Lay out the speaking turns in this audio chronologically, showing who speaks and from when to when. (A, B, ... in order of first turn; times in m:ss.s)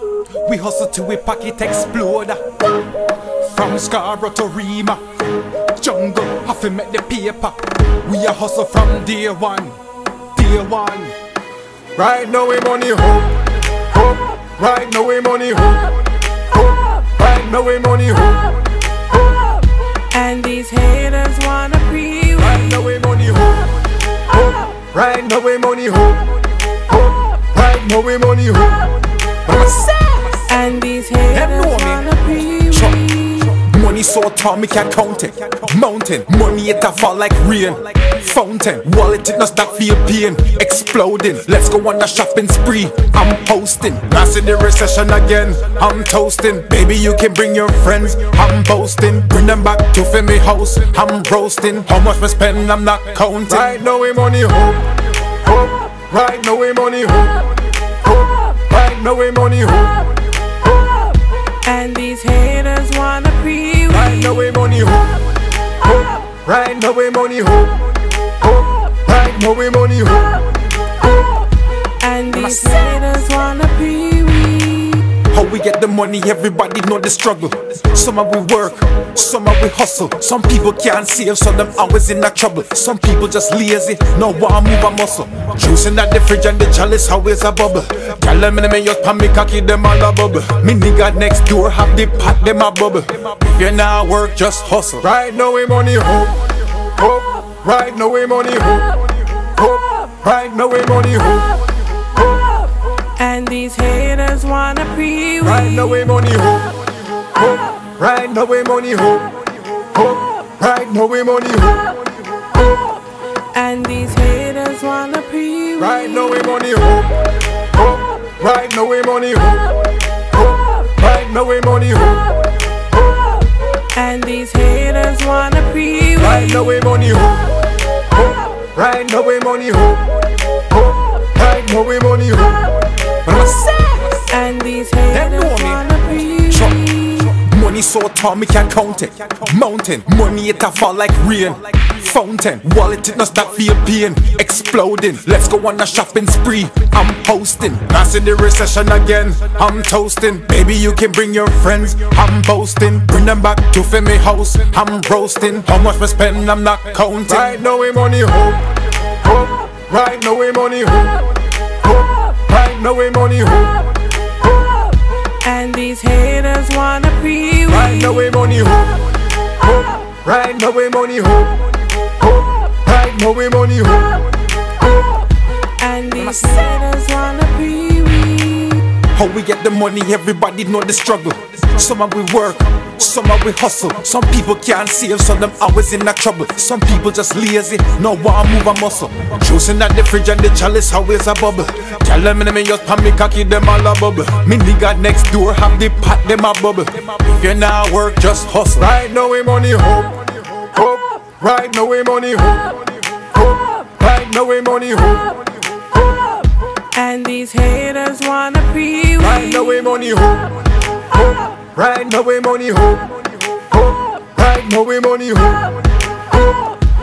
0:00.4-0:02.5 A
0:03.3-0:05.0 A
0:05.7-0:09.8 A
0:10.4-0:11.2 A
0:12.0-0:16.0 B
0:16.9-0:18.6 B
0:20.1-0:22.7 C
0:22.4-0:29.0 B
0:29.4-0:30.5 A
0:30.4-0:33.2 C
0:31.3-0:53.8 A
0:53.5-0:55.0 B
0:55.7-0:57.6 B
0:58.3-1:00.1 B
1:01.6-1:04.3 C
1:03.9-1:10.6 B
1:12.0-1:15.1 C
1:12.3-1:13.0 A
1:15.2-1:35.1 A
1:35.0-1:41.6 B
1:43.2-1:46.0 C
1:45.4-1:52.0 B
1:53.5-1:56.4 C
1:55.8-1:59.9 B
2:00.7-2:02.5 B
2:03.9-2:06.7 C
2:06.2-2:07.6 B
2:08.6-2:10.2 B
2:11.1-2:12.9 B
2:13.2-2:14.3 A
2:14.3-2:17.0 C
2:15.1-2:37.6 A
2:37.3-2:38.7 B
2:39.4-2:41.3 B
2:42.2-2:43.9 B
2:45.4-2:48.2 C
2:47.7-2:54.4 B
2:55.8-2:58.9 C
2:59.1-3:19.0 A
3:18.8-3:25.5 B
3:26.9-3:29.8 C
3:29.2-3:35.8 B